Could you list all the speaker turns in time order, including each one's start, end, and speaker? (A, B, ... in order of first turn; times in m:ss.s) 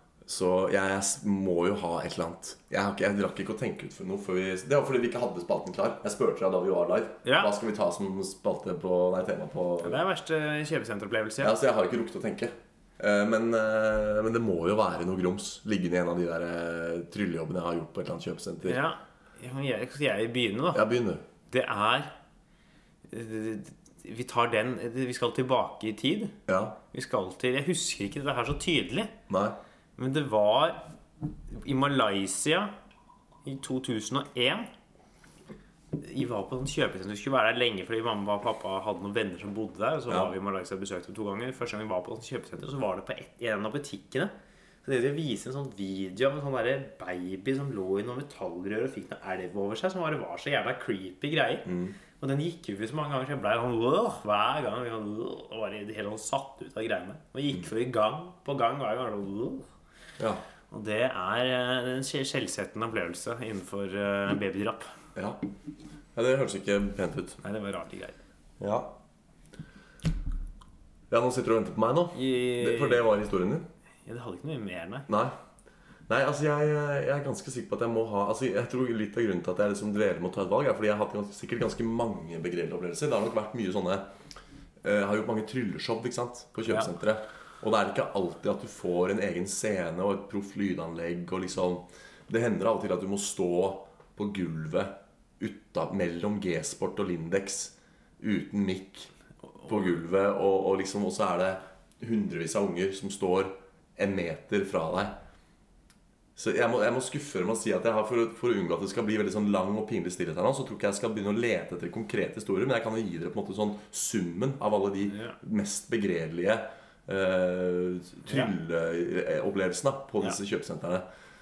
0:00.3-0:10.0 A
0:07.2-0:07.5 B
0:09.8-0:11.6 B
0:11.4-0:18.8 A
0:18.6-0:20.9 B
0:20.7-0:21.2 A
0:21.5-0:22.1 B
0:23.1-0:26.4 B
0:26.5-0:26.8 A
0:26.9-0:29.1 B
0:29.3-0:29.6 A
0:30.0-0:30.8 B
0:31.5-0:32.7 B
0:33.4-0:34.7 B
0:35.9-0:44.3 B
0:44.8-0:59.7 B
0:51.7-0:52.0 A
1:00.7-1:04.9 B
1:05.2-1:05.4 A
1:06.2-1:07.4 A
1:07.4-1:08.2 B
1:08.6-1:08.9 A
1:11.1-1:13.7 A
1:12.2-1:13.1 B
1:14.1-1:15.1 B
1:15.1-1:15.4 A
1:16.1-1:24.0 A
1:24.8-1:39.1 A
1:39.6-1:45.2 A
1:46.4-2:01.0 A
1:55.1-1:55.4 B